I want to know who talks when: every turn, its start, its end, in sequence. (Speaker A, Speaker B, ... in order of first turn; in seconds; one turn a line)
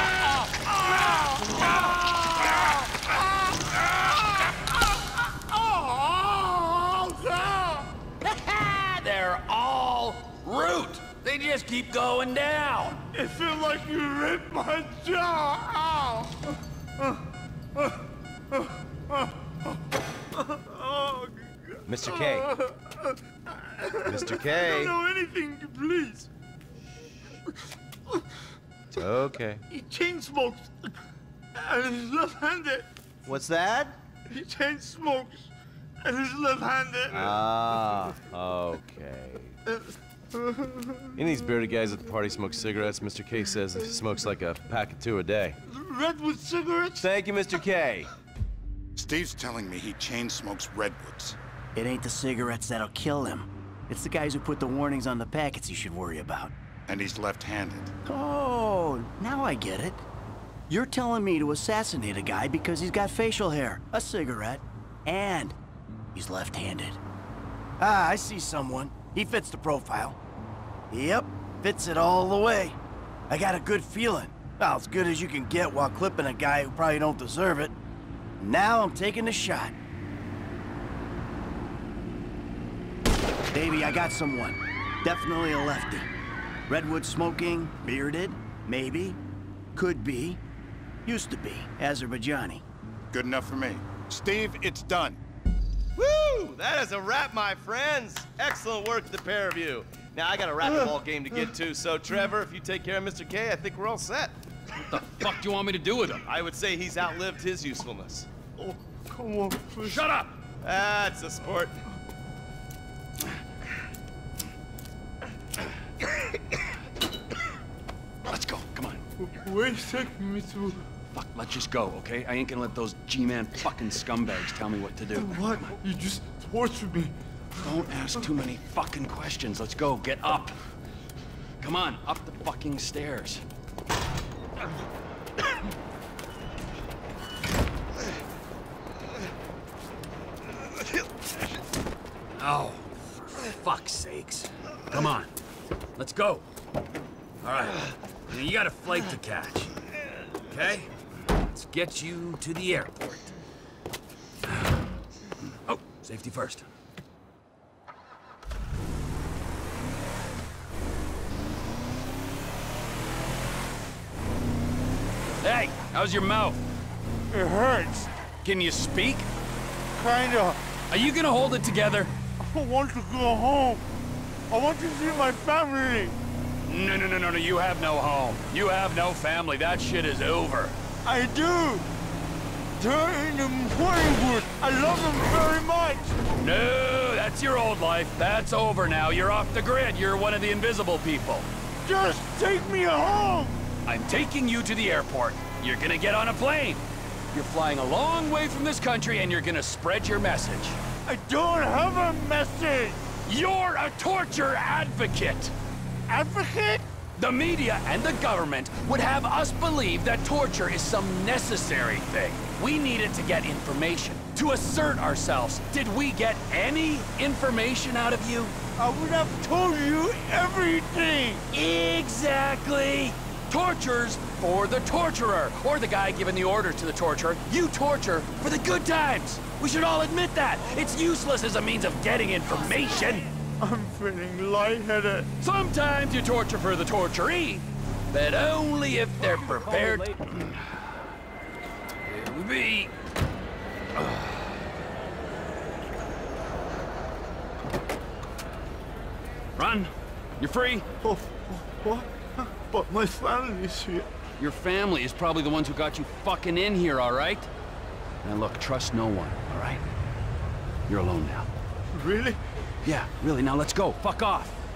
Speaker A: 5.8-7.9
Speaker B: 8.2-13.0
Speaker A: 13.1-16.3
Speaker A: 20.5-21.5
Speaker C: 21.9-22.6
Speaker A: 22.8-23.1
Speaker A: 23.8-26.3
Speaker C: 24.0-25.0
Speaker C: 28.9-29.6
Speaker A: 29.7-30.9
Speaker A: 31.6-32.9
Speaker C: 33.3-34.0
Speaker A: 34.3-35.5
Speaker A: 36.0-37.2
Speaker C: 37.1-39.5
Speaker A: 40.4-40.9
Speaker C: 41.1-45.6
Speaker A: 45.8-47.0
Speaker C: 47.0-48.1
Speaker D: 49.0-51.4
Speaker E: 51.8-56.5
Speaker D: 56.9-57.9
Speaker E: 58.1-60.0
Speaker E: 60.7-65.5
Speaker E: 66.1-67.0
Speaker E: 67.8-70.2
Speaker E: 70.9-72.8
Speaker E: 73.3-77.8
Speaker E: 78.4-79.7
Speaker E: 83.5-86.1
Speaker E: 86.7-89.2
Speaker E: 89.8-90.4
Speaker E: 91.1-92.6
Speaker D: 93.1-95.2
Speaker C: 96.0-104.4
Speaker B: 104.8-106.3
Speaker C: 106.3-108.3
Speaker A: 108.6-110.0
Speaker B: 109.8-110.3
Speaker C: 110.6-111.8
Speaker B: 118.3-119.0
Speaker A: 119.4-120.8
Speaker B: 121.1-125.7
Speaker A: 125.2-127.1
Speaker B: 127.6-130.6
Speaker B: 131.6-133.4
Speaker B: 142.3-145.4
Speaker B: 146.0-146.4
Speaker B: 147.4-149.7
Speaker B: 150.5-153.3
Speaker B: 155.5-156.7
Speaker B: 165.4-166.6
Speaker A: 167.3-168.1
Speaker B: 168.4-169.3
Speaker A: 170.0-170.6
Speaker B: 170.9-172.2
Speaker A: 172.5-173.8
Speaker A: 174.5-176.1
Speaker B: 176.7-180.8
Speaker A: 181.1-181.8
Speaker A: 182.8-186.1
Speaker B: 186.3-191.5
Speaker A: 191.9-193.6
Speaker B: 193.8-200.8
Speaker A: 201.1-203.0
Speaker B: 203.2-205.5
Speaker A: 206.1-206.8
Speaker B: 207.2-218.6
Speaker A: 218.8-221.4
Speaker B: 221.5-233.3
Speaker A: 233.6-235.2
Speaker B: 235.4-240.8
Speaker B: 242.0-242.9
Speaker B: 243.9-244.6
Speaker B: 249.6-250.9
Speaker A: 251.0-254.1
Speaker B: 254.4-257.5
Speaker B: 258.2-259.8
Speaker B: 260.9-261.5
Speaker A: 261.9-262.4
Speaker B: 262.8-264.6